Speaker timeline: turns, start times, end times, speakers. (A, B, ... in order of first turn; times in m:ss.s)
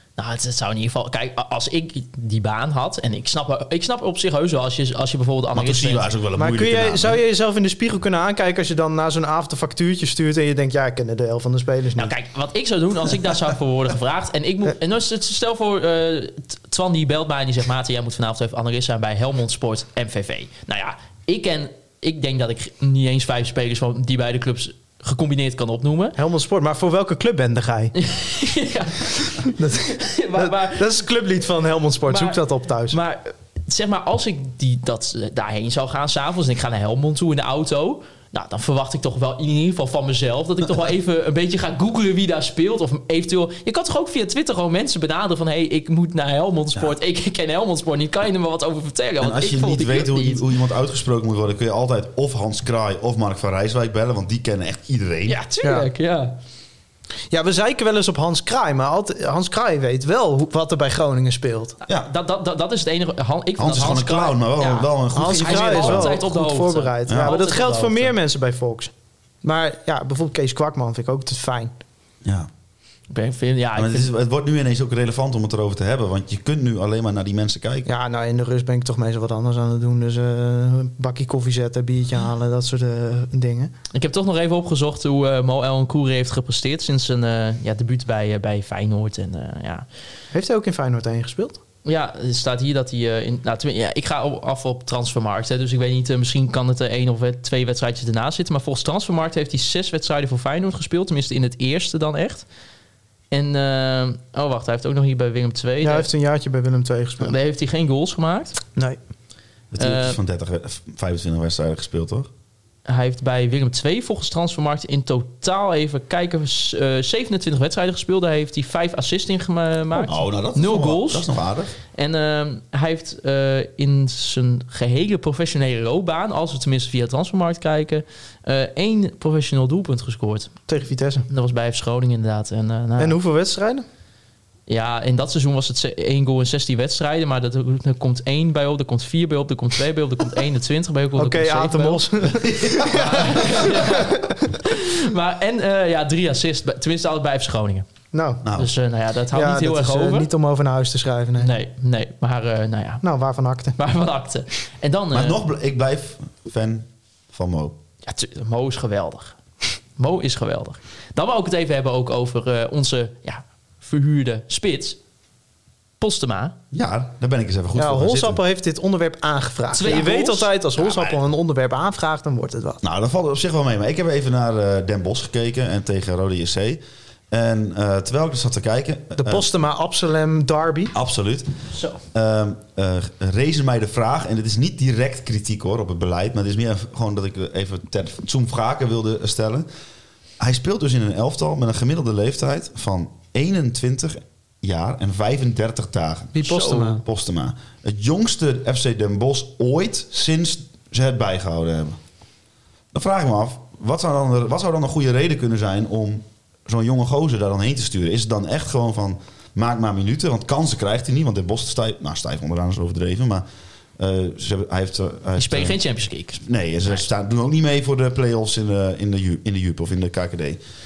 0:00.2-0:06.0 A
0:05.5-0:07.2 B
0:06.4-0:12.1 C
0:12.0-0:26.2 A
0:26.2-0:27.9 C
0:28.0-0:31.0 A
0:29.4-0:33.0 C
0:32.1-0:50.4 A
0:49.2-0:55.4 B
0:55.2-0:56.4 A
0:55.6-0:55.9 C
0:57.3-1:01.8 C
1:01.8-1:08.1 A
1:03.6-1:06.2 B
1:05.1-1:08.9 C
1:07.0-1:07.4 B
1:09.4-1:11.7 C
1:13.1-1:14.1 A
1:13.7-1:17.9 B
1:17.8-1:23.7 C
1:23.9-1:29.8 A
1:30.3-1:31.6 C
1:31.8-1:42.4 A
1:43.3-1:46.1 A
1:45.8-1:47.4 C
1:47.2-1:48.6 A
1:49.7-1:52.3 B
1:49.8-1:50.2 A
1:52.8-2:01.3 A
2:00.0-2:01.7 B
2:01.9-2:10.5 A
2:10.7-2:11.3 C
2:11.3-2:13.2 A
2:13.0-2:13.8 C
2:14.7-2:22.0 A
2:21.2-2:24.6 C
2:22.2-2:23.5 B
2:22.8-2:27.9 A
2:28.1-2:28.4 C
2:28.4-2:28.7 B
2:28.5-2:30.3 A
2:29.3-2:31.5 C
2:31.4-2:33.0 A
2:33.0-2:33.8 C
2:33.8-2:35.4 A
2:35.1-2:37.8 B
2:38.0-2:39.4 A
2:40.0-2:45.0 A
2:46.0-2:46.6 A
2:46.7-2:48.4 B
2:47.7-2:52.8 C
2:49.7-2:51.2 A
2:52.8-2:59.4 B
2:59.2-3:00.9 C
3:00.9-3:01.5 B
3:01.7-3:02.0 A
3:02.1-3:09.7 B
3:10.4-3:22.0 B
3:16.3-3:17.0 C
3:22.9-3:33.4 B
3:34.0-3:35.8 B
3:35.4-3:37.0 A
3:36.4-3:40.6 B